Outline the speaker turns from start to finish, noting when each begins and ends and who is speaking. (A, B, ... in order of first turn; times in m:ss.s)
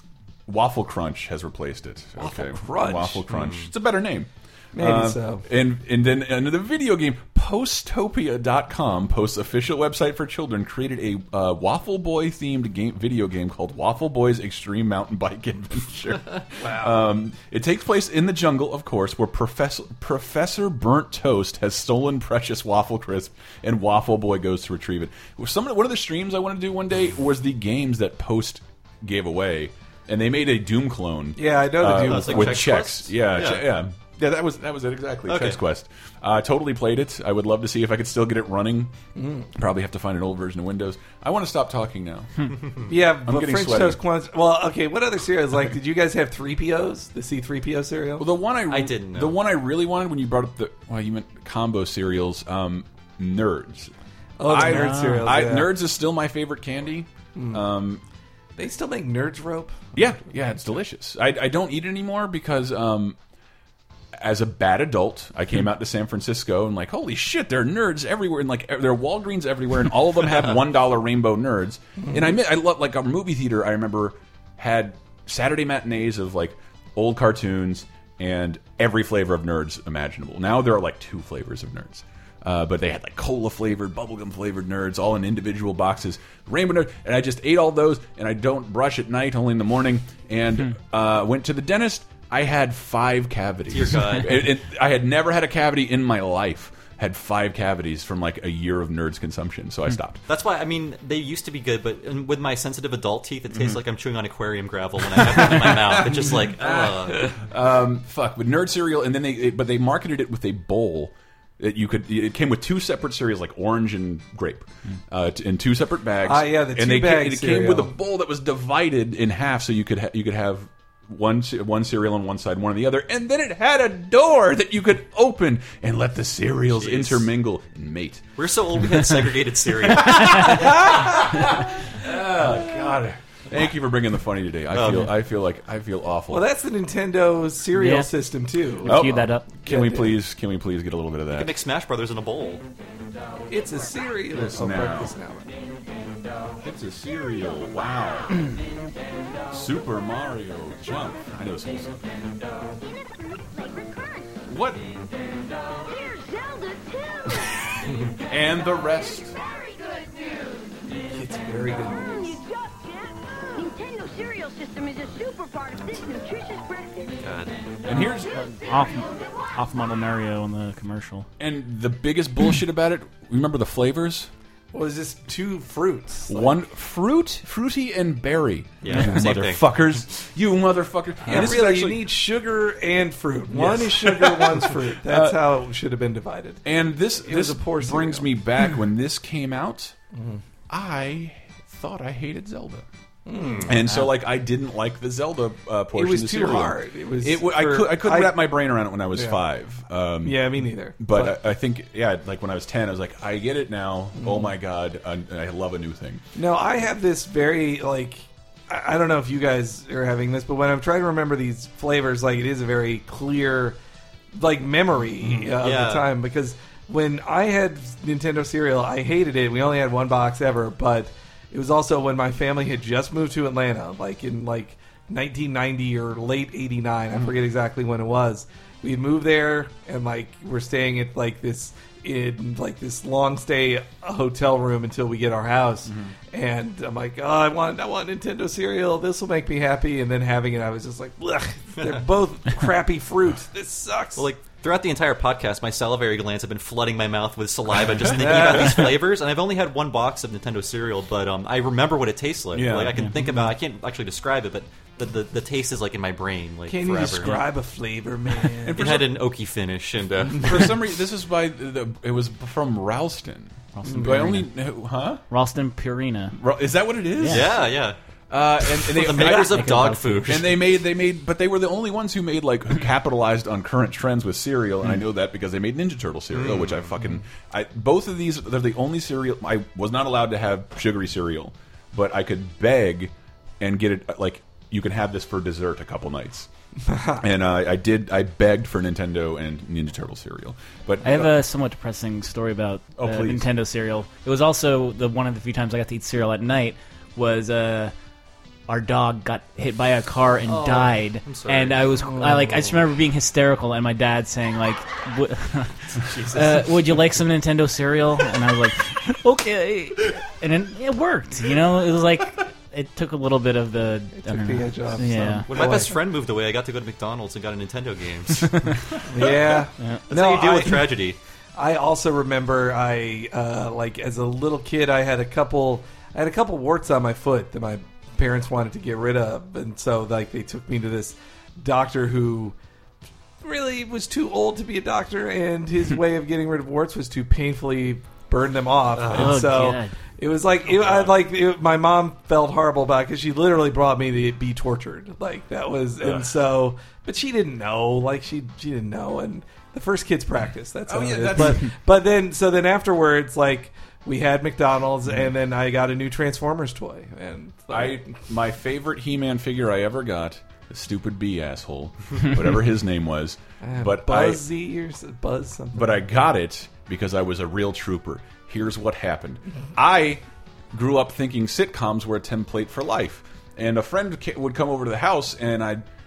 0:00.5-0:38.9 A
0:02.2-0:03.2 B
0:03.3-0:03.7 C
0:04.7-0:05.4 B
0:16.5-0:17.1 B
0:31.4-0:32.7 B
0:31.9-0:33.7 C
0:35.3-0:35.6 C
0:39.2-0:39.5 B
0:39.5-0:42.5 A
0:42.9-0:48.2 B
0:43.2-0:44.0 A
0:48.2-0:53.9 A
0:48.7-0:49.4 C
0:54.4-0:55.7 B
0:54.4-0:58.0 A
0:54.6-0:55.2 D
0:57.3-0:57.6 B
0:58.6-1:00.7 B
0:59.9-1:03.2 A
1:04.1-1:40.2 A
1:12.0-1:12.3 B
1:33.7-1:34.5 C
1:40.3-1:47.4 C
1:43.5-1:43.8 A
1:45.2-2:08.3 A
1:56.2-1:57.9 B
2:06.7-2:07.3 C
2:08.4-2:10.7 C
2:09.8-2:16.4 A
2:14.7-2:15.1 C
2:16.3-2:20.2 B
2:17.7-2:18.1 D
2:18.8-2:19.4 D
2:18.8-2:21.5 A
2:21.3-2:22.6 C
2:23.5-2:25.5 B
2:24.3-2:25.1 A
2:26.6-2:28.4 A
2:29.5-2:32.0 A
2:32.8-2:34.3 E
2:34.5-2:34.8 A
2:35.8-2:38.1 E
2:38.2-2:39.4 A
2:38.9-2:40.6 E
2:41.1-2:42.4 B
2:41.5-2:47.2 E
2:47.2-2:47.5 C
2:47.8-2:48.3 A
2:47.9-2:51.2 D
2:51.4-2:54.3 A
2:54.7-2:56.5 B
2:56.3-3:02.0 A
2:58.8-2:59.6 C
2:58.9-2:59.3 D
3:01.3-3:06.6 B
3:03.5-3:05.4 A
3:06.6-3:10.0 A
3:07.2-3:08.3 B
3:10.1-3:10.4 B
3:10.7-3:12.8 A
3:13.2-3:13.7 B
3:13.4-3:13.7 C
3:13.6-3:26.2 A
3:15.9-3:18.6 B
3:19.1-3:19.4 B
3:20.2-3:21.4 B
3:24.2-3:24.5 B
3:26.3-3:33.8 B
3:34.3-4:04.3 B
3:35.6-3:36.1 C
3:55.8-3:56.1 A
4:04.2-4:17.4 C
4:08.2-4:08.8 B
4:12.5-4:13.0 A
4:16.7-4:19.0 B
4:18.6-4:19.1 A
4:18.8-4:20.8 C
4:20.4-4:25.2 A
4:23.8-4:24.5 D
4:23.8-4:24.2 B
4:25.3-4:26.4 D
4:26.4-4:27.6 A
4:27.2-4:27.6 D
4:27.3-4:28.0 C
4:28.3-4:29.7 A
4:28.8-4:30.5 C
4:29.2-4:30.5 D
4:30.3-4:46.5 A
4:36.3-4:36.8 C
4:46.9-4:47.2 B
4:47.2-4:51.3 A
4:51.0-4:57.9 D
4:53.0-4:53.5 A
4:58.7-5:15.5 D
5:00.4-5:01.9 C
5:02.0-5:02.8 B
5:05.9-5:06.7 C
5:14.1-5:16.0 B
5:15.5-5:18.6 C
5:19.1-5:21.0 B
5:19.8-5:20.0 D
5:20.1-5:21.2 C
5:21.6-5:32.5 B
5:33.4-5:58.1 B
5:39.0-5:39.3 C
5:39.1-5:39.9 D
5:40.7-5:41.1 C
5:46.0-5:46.2 A
5:50.9-5:51.7 A
5:57.7-6:04.4 A
6:03.6-6:06.0 B
6:05.7-6:15.8 A